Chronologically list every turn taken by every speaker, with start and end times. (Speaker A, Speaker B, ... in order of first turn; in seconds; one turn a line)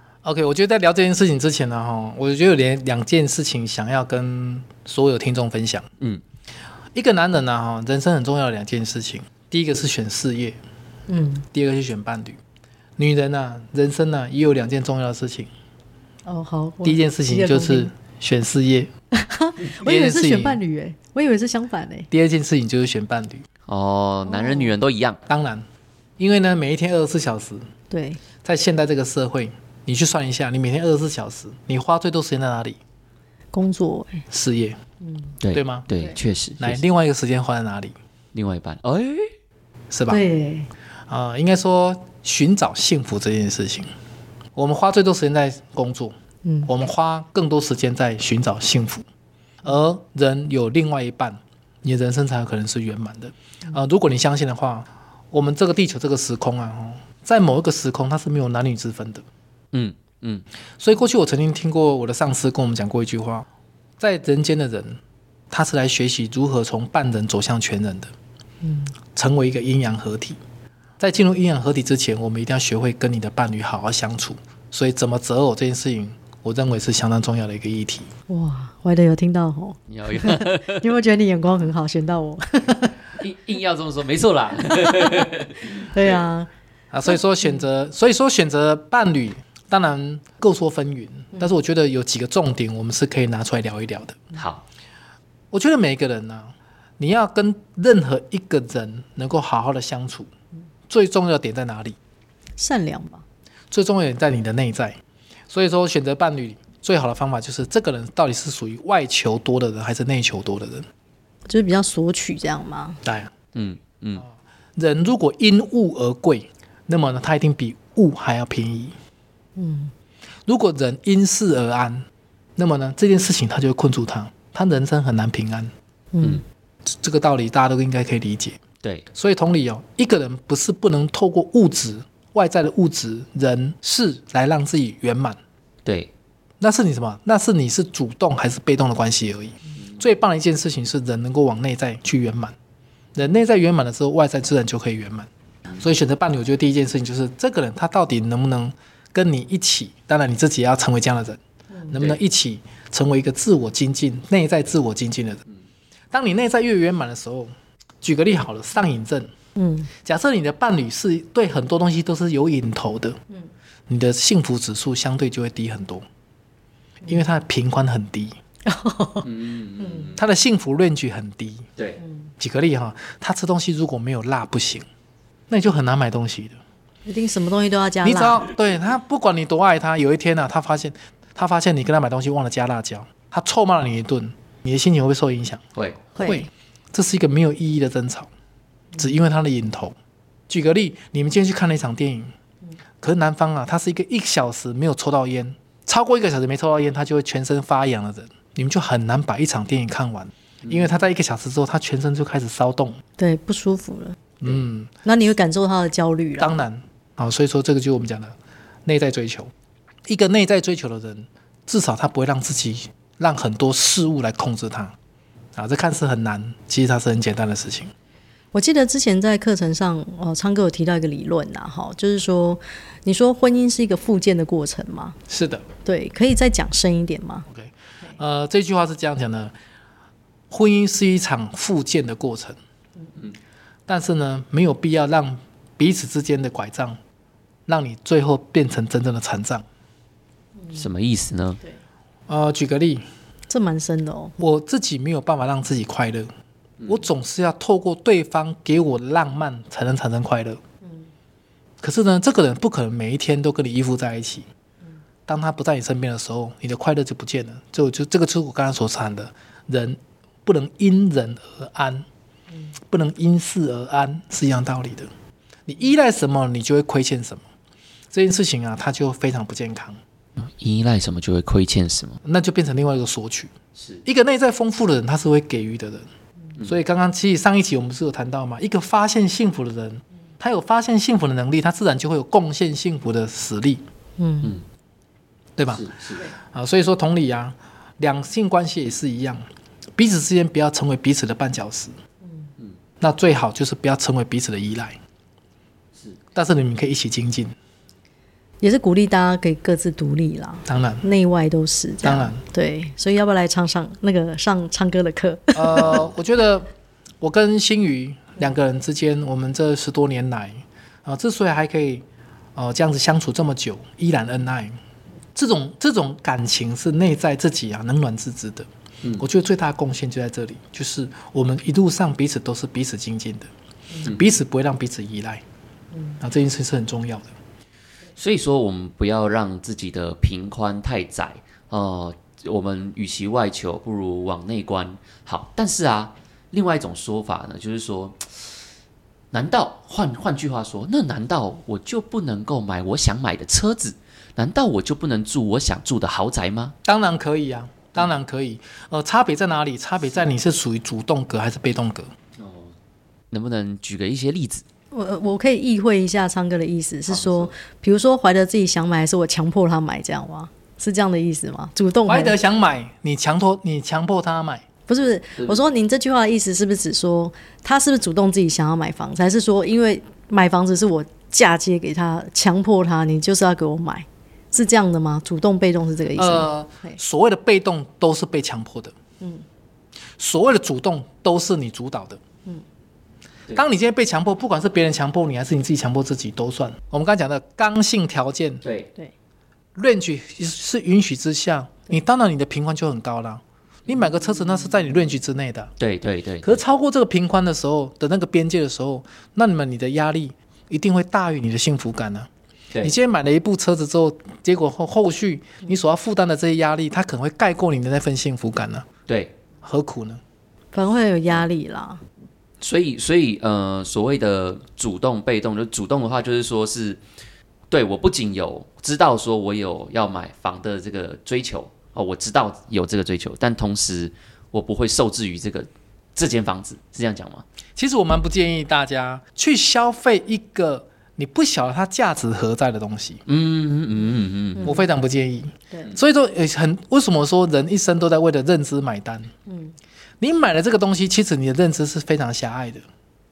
Speaker A: 0.2-5.9
Speaker A: 7.0-10.6
Speaker B: 11.1-11.5
Speaker A: 11.5-12.4
Speaker A: 13.0-15.5
Speaker B: 16.3-17.9
Speaker A: 16.8-18.9
Speaker B: 19.1-22.1
Speaker A: 19.8-20.6
Speaker A: 22.1-23.4
Speaker C: 23.7-25.2
Speaker B: 24.3-24.7
Speaker A: 25.3-25.7
Speaker A: 26.2-27.7
Speaker B: 27.9-28.2
Speaker A: 28.4-32.8
Speaker B: 33.5-34.2
Speaker A: 34.3-34.8
Speaker B: 35.0-35.3
Speaker C: 35.4-36.8
Speaker A: 35.5-35.9
Speaker A: 36.6-38.0
Speaker C: 38.3-39.3
Speaker A: 39.9-40.2
Speaker B: 40.1-40.7
Speaker A: 41.1-43.9
Speaker A: 44.5-46.1
Speaker B: 46.5-46.7
Speaker A: 46.7-49.1
Speaker A: 49.6-59.2
Speaker C: 59.7-60.5
Speaker A: 60.8-63.5
Speaker A: 64.0-65.0
Speaker A: 65.5-68.1
Speaker B: 68.6-69.0
Speaker A: 69.2-70.4
Speaker A: 71.0-78.1
Speaker B: 78.3-83.0
Speaker C: 79.9-80.8
Speaker C: 83.2-86.2
Speaker B: 85.0-85.2
Speaker B: 85.8-86.5
Speaker A: 86.9-94.3
Speaker C: 94.3-94.6
Speaker A: 95.5-100.3
Speaker A: 100.9-102.0
Speaker B: 102.6-103.2
Speaker A: 103.7-105.0
Speaker A: 105.5-110.9
Speaker B: 111.5-113.0
Speaker A: 113.0-113.3
Speaker C: 113.5-114.2
Speaker A: 114.8-118.9
Speaker B: 119.6-119.9
Speaker A: 120.5-125.7
Speaker B: 126.1-126.4
Speaker A: 126.9-128.6
Speaker A: 129.1-135.4
Speaker C: 135.8-136.1
Speaker A: 136.6-142.6
Speaker A: 143.2-151.4
Speaker A: 151.9-155.4
Speaker A: 156.1-159.3
Speaker B: 159.6-159.9
Speaker A: 160.0-163.2
Speaker A: 163.9-166.1
Speaker A: 167.1-168.4
Speaker B: 168.7-169.3
Speaker C: 169.2-170.2
Speaker B: 169.8-170.1
Speaker A: 170.2-171.7
Speaker A: 172.4-174.9
Speaker A: 175.5-176.6
Speaker B: 177.1-178.4
Speaker A: 178.0-185.6
Speaker C: 185.8-186.0
Speaker B: 186.2-186.5
Speaker A: 186.2-188.3
Speaker A: 189.0-189.9
Speaker A: 190.5-192.3
Speaker A: 193.0-203.0
Speaker B: 203.2-204.2
Speaker A: 204.4-204.9
Speaker B: 205.1-206.6
Speaker A: 206.4-209.5
Speaker A: 210.1-214.9
Speaker A: 215.6-217.9
Speaker B: 218.5-225.2
Speaker A: 225.3-225.7
Speaker B: 225.8-227.5
Speaker A: 227.5-229.5
Speaker A: 230.5-232.6
Speaker A: 233.9-237.0
Speaker A: 237.7-239.7
Speaker C: 240.7-241.6
Speaker A: 242.3-243.0
Speaker B: 243.5-244.3
Speaker A: 244.4-246.3
Speaker A: 246.9-250.6
Speaker A: 251.8-254.5
Speaker A: 255.3-262.1
Speaker A: 262.9-265.1
Speaker A: 265.7-267.4
Speaker A: 268.1-270.0
Speaker C: 270.4-272.2
Speaker A: 272.2-273.5
Speaker C: 273.8-274.0
Speaker A: 274.1-276.1
Speaker A: 276.6-283.8
Speaker B: 284.2-284.5
Speaker A: 285.6-285.9
Speaker C: 285.7-286.3
Speaker A: 286.4-289.4
Speaker A: 290.0-291.9
Speaker A: 293.0-295.0
Speaker A: 296.3-297.5
Speaker B: 298.6-306.0
Speaker A: 300.7-301.0
Speaker A: 302.0-302.4
Speaker A: 305.6-306.7
Speaker A: 307.2-312.1
Speaker A: 312.6-314.8
Speaker A: 315.4-318.7
Speaker A: 319.2-323.5
Speaker A: 324.1-325.4
Speaker A: 326.2-327.3
Speaker C: 328.2-338.2
Speaker C: 339.3-346.8
Speaker A: 346.9-352.1
Speaker C: 352.4-352.7
Speaker C: 353.3-354.6
Speaker B: 354.9-362.4
Speaker C: 357.1-357.5
Speaker A: 362.1-364.6
Speaker B: 364.9-377.0
Speaker A: 376.2-378.9
Speaker A: 380.2-382.2
Speaker A: 383.6-388.6
Speaker C: 388.6-388.9
Speaker A: 389.8-395.7
Speaker C: 395.8-396.6
Speaker A: 396.4-402.3
Speaker A: 402.8-408.9
Speaker C: 409.1-409.4
Speaker A: 409.6-410.2
Speaker B: 410.7-412.0
Speaker C: 412.6-417.0
Speaker C: 417.7-427.4
Speaker A: 427.8-433.2
Speaker C: 433.3-434.8
Speaker B: 434.6-434.9
Speaker A: 434.6-439.3
Speaker B: 439.5-439.8
Speaker A: 440.2-442.8